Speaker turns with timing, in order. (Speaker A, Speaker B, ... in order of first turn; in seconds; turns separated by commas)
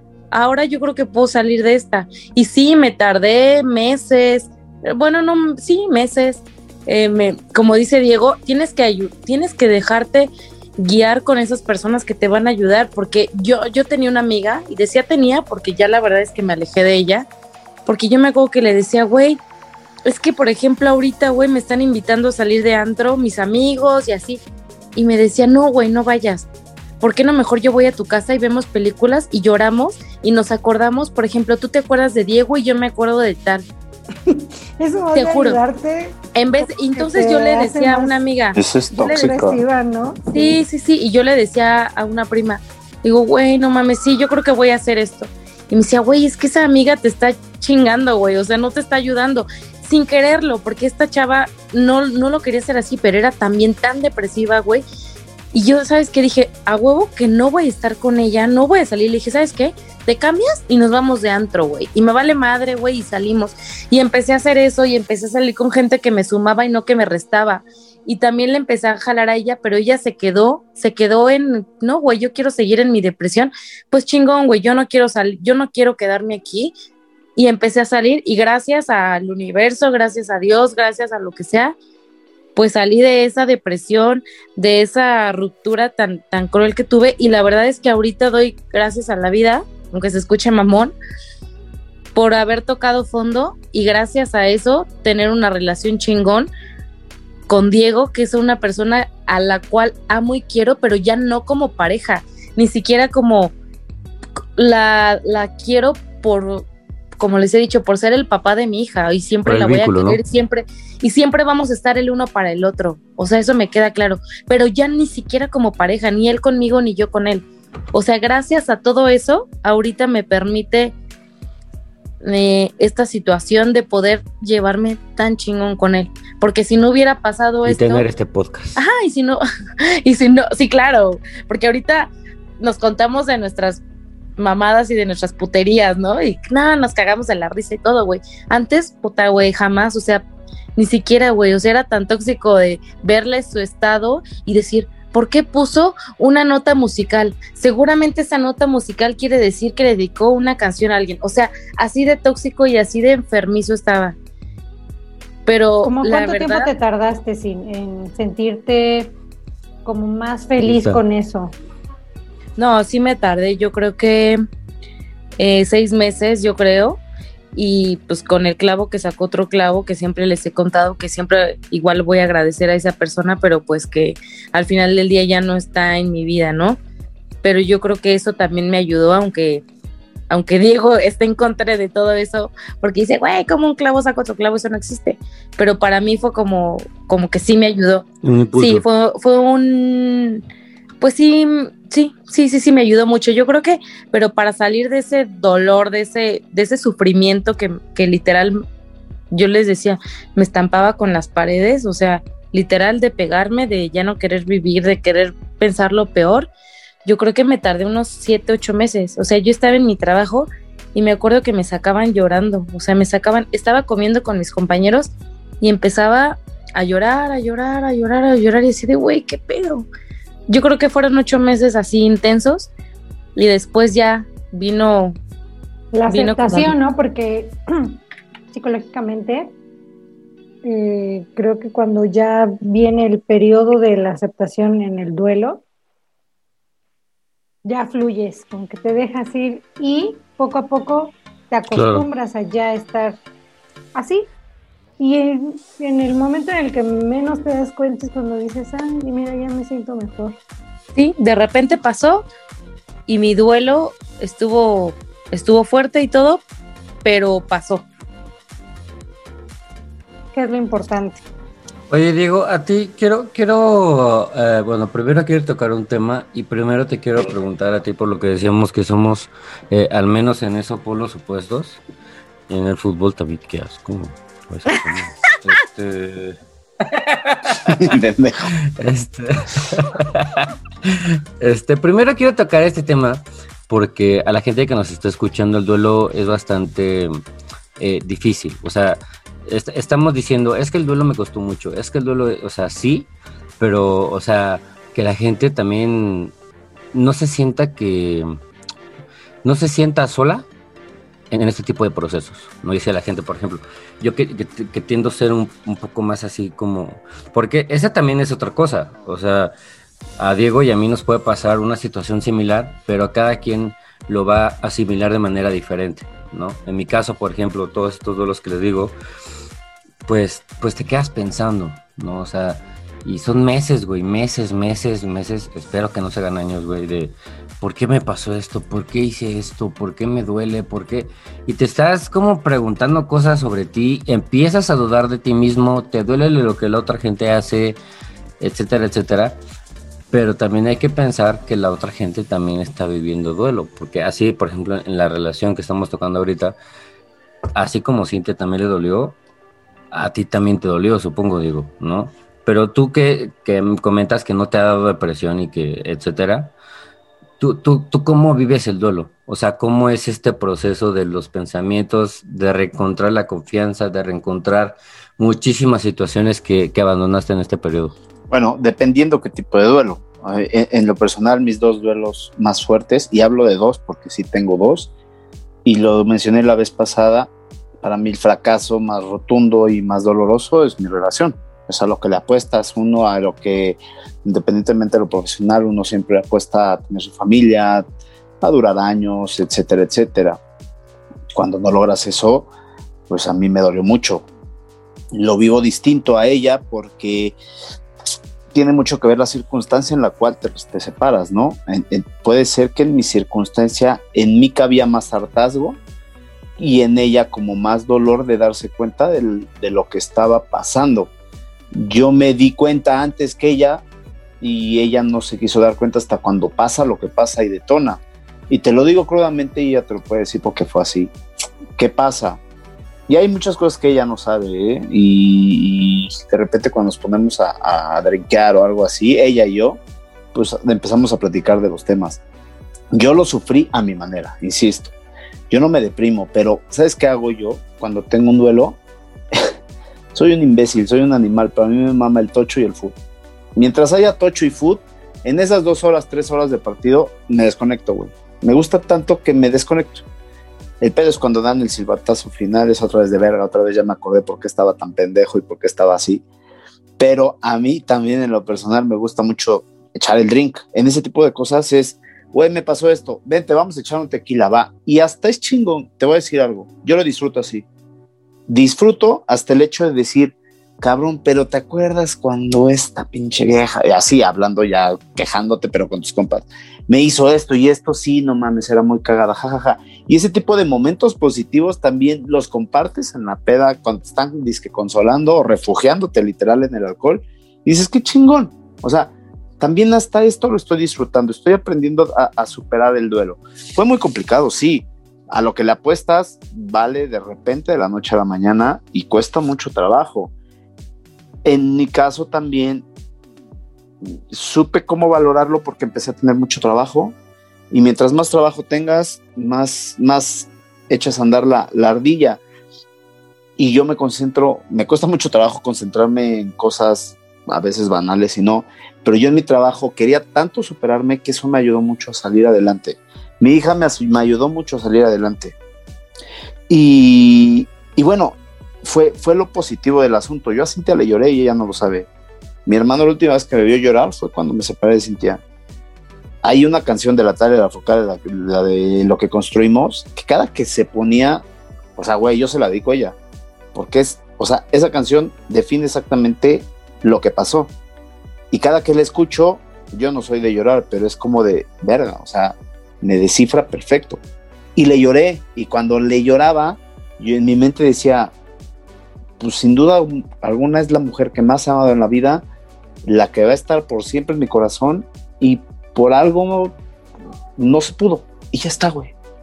Speaker A: 0.3-17.3, Speaker A: 17.9-19.4, Speaker A: 20.1-24.4, Speaker A: 24.9-26.5, Speaker A: 27.0-33.7, Speaker B: 34.3-38.2, Speaker A: 35.1-35.6, Speaker A: 36.4-38.6, Speaker C: 38.6-39.6, Speaker B: 38.9-40.6, Speaker A: 40.3-54.8, Speaker A: 55.5-76.7, Speaker A: 77.4-81.8, Speaker A: 82.6-91.0, Speaker A: 92.1-96.5, Speaker A: 97.5-103.5, Speaker A: 104.6-120.9, Speaker D: 109.5-110.2, Speaker A: 122.2-128.1, Speaker D: 127.7-128.8, Speaker A: 128.8-129.4, Speaker A: 130.0-133.8, Speaker A: 134.4-140.2, Speaker A: 140.8-154.2, Speaker A: 155.5-156.7, Speaker B: 155.8-159.1, Speaker B: 159.8-161.5, Speaker D: 160.7-161.0, Speaker A: 162.6-164.4, Speaker A: 165.4-167.0, Speaker A: 167.5-176.8, Speaker A: 177.4-179.7, Speaker A: 180.3-190.4, Speaker D: 188.2-188.8, Speaker A: 191.0-198.6, Speaker A: 199.3-206.5, Speaker A: 207.1-219.9, Speaker A: 220.5-222.7, Speaker A: 223.4-225.2, Speaker B: 225.9-228.0, Speaker A: 226.1-226.8, Speaker B: 228.5-229.5, Speaker B: 230.6-235.6, Speaker B: 237.7-243.2, Speaker D: 241.7-242.1, Speaker B: 243.9-244.3, Speaker B: 245.0-250.4, Speaker A: 251.0-252.3, Speaker A: 253.1-256.4, Speaker A: 257.0-257.9, Speaker B: 260.3-261.2, Speaker D: 261.9-271.8, Speaker D: 272.5-277.9, Speaker C: 277.7-278.5, Speaker D: 278.8-287.1, Speaker D: 287.8-293.1, Speaker D: 293.6-296.3, Speaker D: 296.9-298.4, Speaker D: 299.4-300.5, Speaker D: 301.3-309.5, Speaker D: 310.2-319.0, Speaker D: 320.1-337.8, Speaker D: 338.4-339.4, Speaker D: 340.1-346.6, Speaker D: 347.6-349.2, Speaker D: 349.9-356.5, Speaker D: 357.4-367.9, Speaker C: 368.3-374.9, Speaker C: 375.6-377.3, Speaker C: 377.8-387.8, Speaker C: 388.4-390.4, Speaker C: 391.3-392.5, Speaker C: 393.1-394.3, Speaker C: 395.1-397.4, Speaker C: 398.5-405.8, Speaker C: 406.6-411.1, Speaker C: 411.7-413.8, Speaker C: 414.4-421.1, Speaker C: 421.8-422.4, Speaker C: 423.1-429.8, Speaker C: 430.3-432.2, Speaker C: 432.9-434.9, Speaker C: 435.5-438.8, Speaker C: 440.1-443.0, Speaker C: 443.6-450.0, Speaker C: 450.8-456.2, Speaker C: 457.0-467.7, Speaker C: 468.5-500.3, Speaker C: 501.4-502.9, Speaker C: 504.0-507.2, Speaker C: 507.7-512.4, Speaker C: 513.6-525.5, Speaker C: 526.7-532.1, Speaker C: 532.7-535.4, Speaker C: 536.4-541.4, Speaker C: 542.0-543.2, Speaker C: 543.7-547.7, Speaker C: 548.5-554.2, Speaker C: 554.8-558.3, Speaker C: 559.4-562.4, Speaker C: 563.0-566.8, Speaker C: 567.6-569.1